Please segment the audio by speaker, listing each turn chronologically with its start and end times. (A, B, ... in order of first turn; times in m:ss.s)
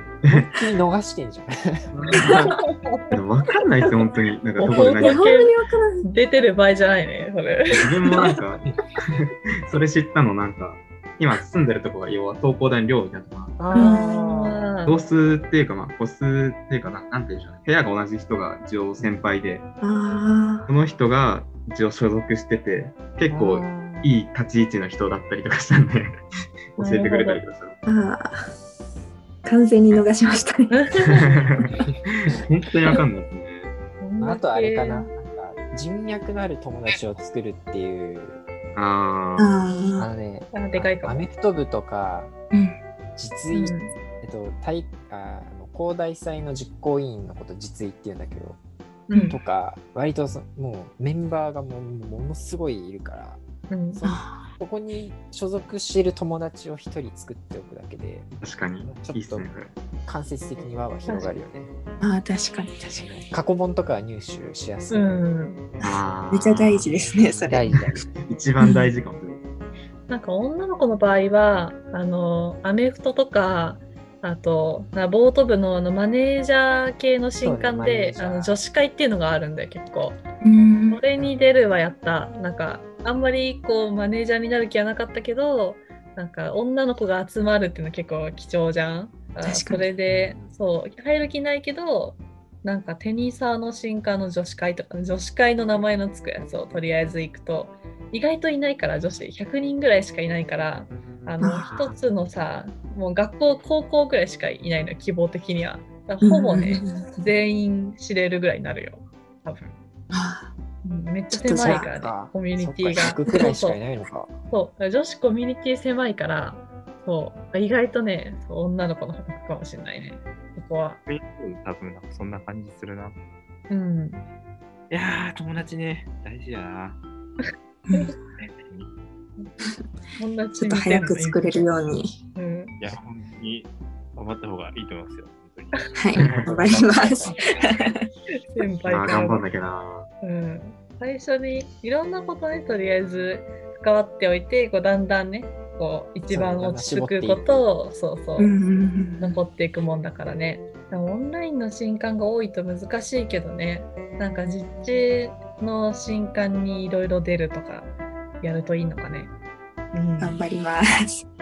0:00.2-0:00.5 A
0:00.3-0:02.5 B
0:01.9-0:02.5 A
0:02.6-0:03.0 C
0:03.1-0:05.3 A
0:04.6-0:05.5 C
0:04.8-0:06.0 D
0:06.0-0:08.2 C
0:07.7-0:13.6 A
0:13.6-0:14.7 B
0:13.7-0:14.2 D
0:13.7-0:15.0 C
0:14.8-0:19.6 A
0:19.8-0:20.7 D
0:20.7-0:26.2 A
0:23.3-0:24.1 B
0:26.7-0:27.8 A
0:26.8-0:27.4 C
0:27.8-0:28.4 D
0:29.4-0:30.8 D
0:30.7-0:31.4 C
0:31.2-0:33.7 A
0:34.0-0:35.1 C
0:34.2-0:38.4 B
0:38.7-0:39.6 A
0:39.4-0:40.1 D
0:40.0-0:42.3 B
0:40.5-0:41.2 C
0:42.5-0:42.8 D
0:43.2-0:48.6 B
0:43.5-0:43.9 C
0:49.1-0:49.4 C
0:49.3-0:53.4 B
0:53.7-0:54.0 C
0:53.9-0:58.3 B
0:54.0-0:54.5 D
0:58.4-0:59.7 A
0:58.8-0:59.5 B
1:00.0-1:01.7 B
1:01.1-1:01.3 C
1:02.0-1:03.1 D
1:02.9-1:05.2 B
1:04.9-1:05.6 C
1:05.8-1:06.9 A
1:05.8-1:07.7 D
1:07.4-1:08.0 B
1:07.7-1:09.4 A
1:08.6-1:08.9 D
1:10.1-1:20.2 C
1:17.4-1:18.6 B
1:20.4-1:21.0 D
1:20.9-1:49.7 C
1:29.4-1:29.9 D
1:30.1-1:30.5 B
1:41.4-1:41.9 D
1:46.2-1:47.1 D
1:50.1-1:50.5 D
1:50.8-1:53.8 C
1:51.3-1:51.9 D
1:51.5-1:54.3 B
1:54.5-2:01.0 C
2:01.1-2:03.2 E
2:03.7-2:04.2 C
2:04.9-2:07.0 E
2:07.9-2:08.4 C
2:08.6-2:08.9 E
2:10.2-2:11.7 C
2:10.6-2:12.1 D
2:12.4-2:12.8 C
2:12.8-2:16.2 E
2:16.0-2:18.0 D
2:16.2-2:16.5 A
2:16.4-2:17.4 B
2:17.3-2:17.9 E
2:18.5-2:19.4 C
2:18.8-2:20.1 A
2:19.0-2:19.4 D
2:20.2-2:28.5 C
2:26.3-2:27.6 B
2:28.4-2:29.4 D
2:29.2-2:39.3 C
2:39.9-2:40.4 C
2:40.2-2:41.2 D